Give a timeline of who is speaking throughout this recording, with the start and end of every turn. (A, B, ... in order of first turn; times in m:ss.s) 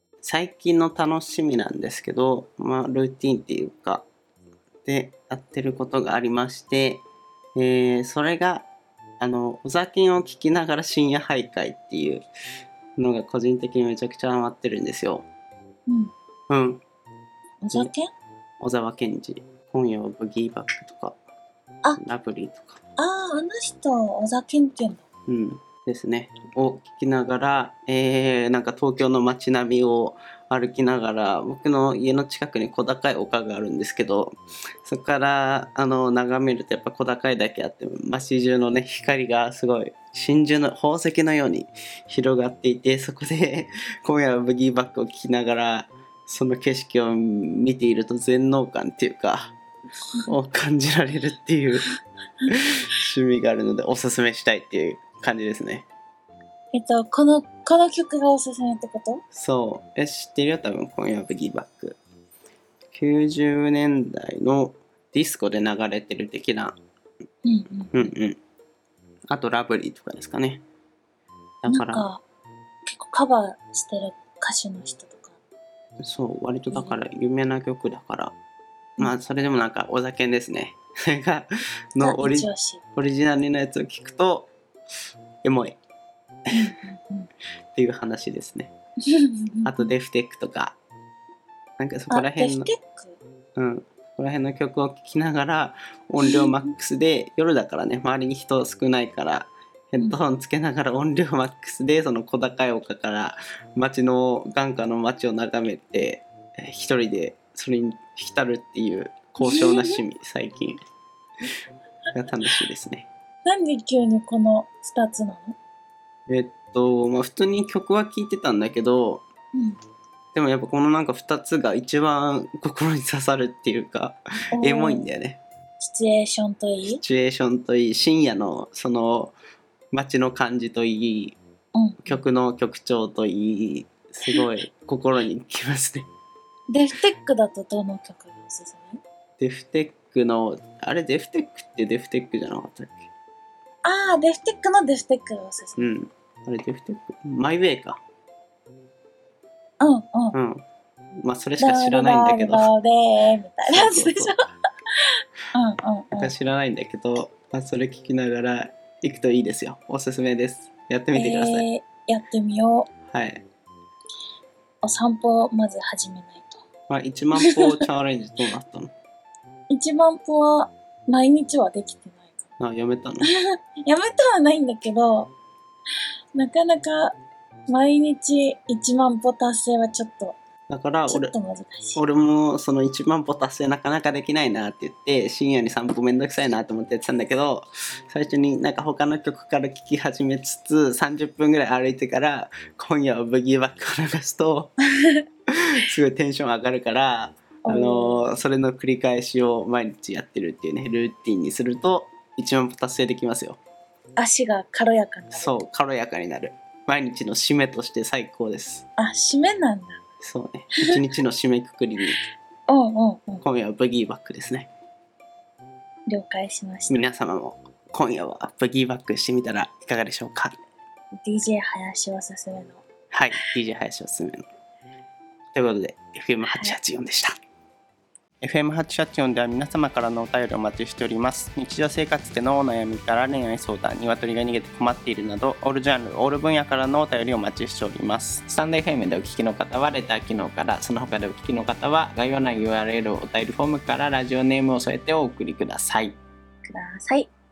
0:00.2-0:04.0 A
0:04.8-0:07.0 A
0:07.6-0:08.7 A
0:09.2-0:12.2 A
0:13.0-0:15.2 A
0:15.9-0:16.1 B
0:16.5-0:16.8 A
0:17.6-0:18.1 B
0:18.6-0:21.2 A
0:22.0-0:22.8 A
0:23.0-0:25.0 B
0:25.3-0:49.5 A
0:50.3-0:51.9 A
0:52.5-0:55.8 A
0:56.7-0:59.2 B
0:59.3-1:02.0 A
1:02.9-1:06.8 A
1:07.4-1:08.1 B
1:07.9-1:08.4 A
1:09.3-1:10.6 A
1:11.6-1:12.1 A
1:11.7-1:12.2 B
1:12.8-1:15.4 B
1:16.0-1:18.4 A
1:16.7-1:17.0 B
1:19.0-1:24.5 A
1:22.0-1:22.8 B
1:25.4-1:25.7 A
1:26.5-1:27.3 B
1:27.7-1:28.7 A
1:29.1-1:29.8 B
1:29.6-1:30.8 A
1:31.8-1:32.7 A
1:32.1-1:33.2 B
1:33.6-1:50.8 A
1:36.2-1:36.5 B
1:49.4-1:50.0 B
1:52.1-1:53.1 A
1:53.4-1:55.6 B
1:56.3-1:59.2 A
2:00.3-2:05.4 A
2:04.5-2:05.1 B
2:05.8-2:07.0 B
2:06.8-2:09.3 A
2:09.9-2:11.4 A
2:11.7-2:12.2 B
2:12.0-2:16.1 A
2:16.7-2:19.0 B
2:19.4-2:23.1 A
2:23.8-2:25.9 B
2:25.8-2:28.0 A
2:29.8-2:30.4 B
2:30.3-2:30.6 A
2:31.2-2:32.7 A
2:31.6-2:34.4 B
2:33.7-2:34.4 A
2:35.5-2:36.3 B
2:36.1-2:41.7 A
2:41.1-2:42.9 B
2:43.1-2:43.4 A
2:44.8-2:46.6 B
2:46.9-2:48.9 A
2:49.7-2:52.5 B
2:52.6-2:53.3 A
2:53.2-2:55.3 B
2:56.3-2:57.2 B
2:57.7-3:00.4 B
3:00.7-3:01.3 A
3:01.1-3:02.0 B
3:01.9-3:14.7 A
3:15.6-3:23.6 A
3:17.6-3:18.4 B
3:24.2-3:25.6 B
3:25.3-3:28.8 A
3:29.0-3:30.0 B
3:30.2-3:32.2 A
3:32.7-3:33.4 B
3:33.4-3:34.7 A
3:36.1-3:37.0 B
3:36.9-3:40.5 A
3:41.2-3:42.8 B
3:43.1-3:44.4 A
3:45.5-3:47.3 A
3:46.4-3:46.8 B
3:48.4-4:06.2 A
4:06.7-4:07.3 B